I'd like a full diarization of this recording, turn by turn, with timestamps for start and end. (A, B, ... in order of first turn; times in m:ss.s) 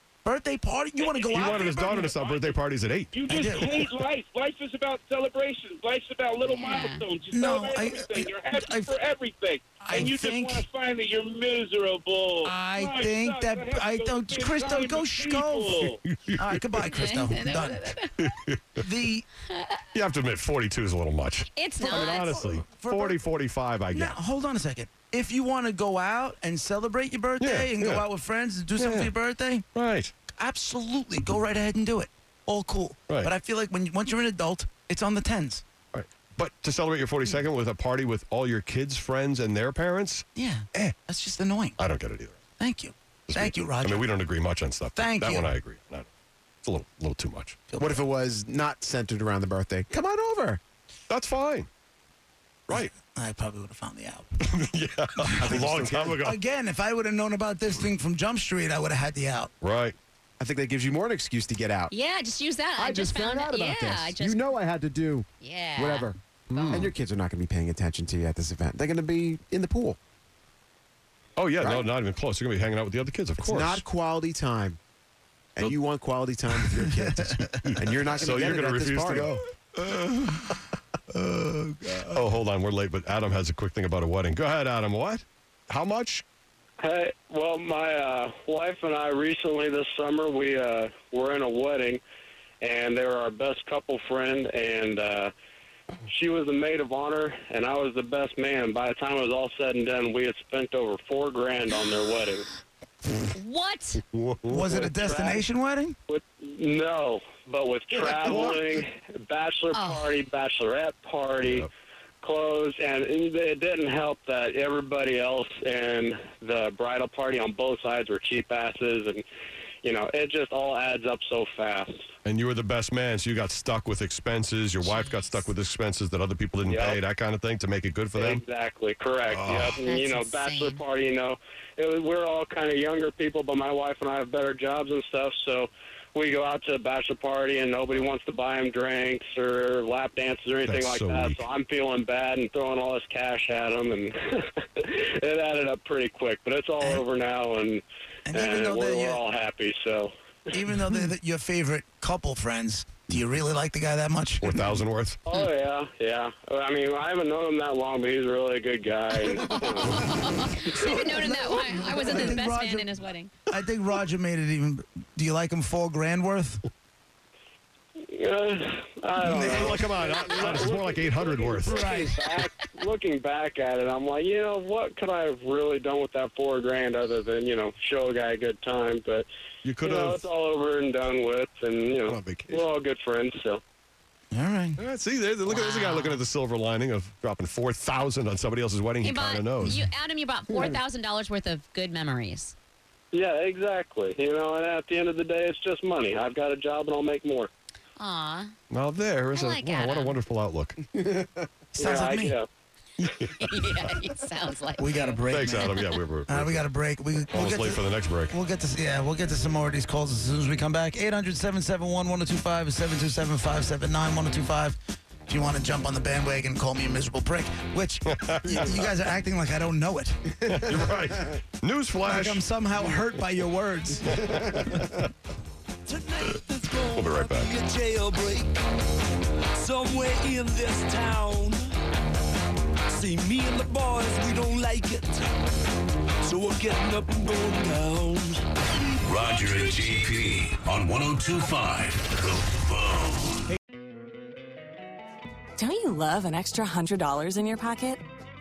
0:00.2-0:02.1 A
0:01.0-0:02.6 B
0:01.3-0:03.2 C
0:03.1-0:16.0 B
0:03.3-0:03.9 A
0:06.4-0:07.0 D
0:07.3-0:09.0 A
0:09.8-0:10.6 A
0:12.4-0:17.9 A
0:16.0-0:16.6 C
0:16.8-0:18.3 D
0:18.2-0:18.8 C
0:18.8-0:19.2 A
0:19.5-0:19.8 D
0:19.9-0:24.2 C
0:21.6-0:22.4 D
0:21.8-0:23.2 A
0:23.9-0:29.6 A
0:27.4-0:28.1 C
0:28.8-0:29.1 C
0:29.7-0:30.1 C
0:30.4-0:35.6 A
0:35.9-0:40.9 C
0:40.4-0:41.8 A
0:41.8-0:42.4 C
0:42.6-0:44.1 A
0:43.3-0:46.1 C
0:45.0-0:45.5 A
0:46.6-0:47.7 C
0:47.7-0:48.0 A
0:47.8-0:50.6 E
0:51.1-0:51.7 C
0:52.7-0:54.4 A
0:54.4-0:56.4 C
0:55.3-0:55.6 A
0:55.4-0:56.2 E
0:56.2-0:59.5 A
0:59.6-1:00.0 C
1:00.4-1:01.9 E
1:01.9-1:04.4 D
1:02.8-1:06.2 E
1:05.4-1:06.9 D
1:06.5-1:06.9 C
1:06.7-1:10.0 E
1:11.4-1:13.8 C
1:11.6-1:11.9 E
1:13.4-1:14.8 E
1:15.6-1:19.4 E
1:17.2-1:17.8 A
1:17.7-1:19.4 C
1:19.8-1:20.6 A
1:21.1-1:22.2 A
1:22.1-1:26.2 C
1:26.8-1:32.0 F
1:32.6-1:35.3 F
1:36.1-1:42.5 F
1:43.3-1:44.0 D
1:44.1-1:44.6 C
1:44.5-1:45.9 A
1:44.7-1:45.4 F
1:46.1-1:51.7 F
1:48.1-1:48.7 C
1:49.7-1:50.1 D
1:51.4-1:51.7 C
1:52.2-1:59.2 F
1:59.8-2:01.9 F
2:02.2-2:08.4 C
2:04.8-2:05.4 D
2:06.6-2:07.0 F
2:08.2-2:30.1 F
2:09.3-2:09.8 C
2:09.8-2:10.8 D
2:20.6-2:21.4 C
2:28.2-2:29.2 A
2:30.5-2:34.5 A
2:34.4-2:35.2 C
2:35.2-2:40.1 F
2:39.8-2:43.3 D
2:40.6-2:42.9 A
2:43.5-2:46.6 A
2:48.1-2:59.3 F
2:49.2-2:49.9 A
2:49.4-2:51.9 C
2:51.6-2:52.2 A
2:59.6-3:00.2 C
2:59.8-3:03.6 F
3:02.0-3:02.6 C
3:04.3-3:04.8 A
3:04.8-3:09.9 C
3:05.4-3:06.2 D
3:09.0-3:12.5 D
3:13.1-3:17.5 F
3:18.0-3:18.5 D
3:18.7-3:20.8 C
3:19.3-3:20.2 D
3:21.8-3:22.4 A
3:21.8-3:22.4 F
3:23.2-3:23.8 C
3:23.4-3:25.8 D
3:24.8-3:25.7 A
3:25.3-3:26.7 C
3:26.3-3:40.6 A
3:27.3-3:28.4 C
3:38.0-3:38.9 C
3:40.5-3:42.4 C
3:42.0-3:44.2 A
3:44.1-3:45.1 C
3:45.9-3:48.6 G
3:46.9-3:47.6 C
3:49.5-3:51.7 G
3:52.9-3:55.3 G
3:56.2-3:58.4 G
3:59.0-4:03.4 H
3:59.2-3:59.8 G
4:05.6-4:08.0 I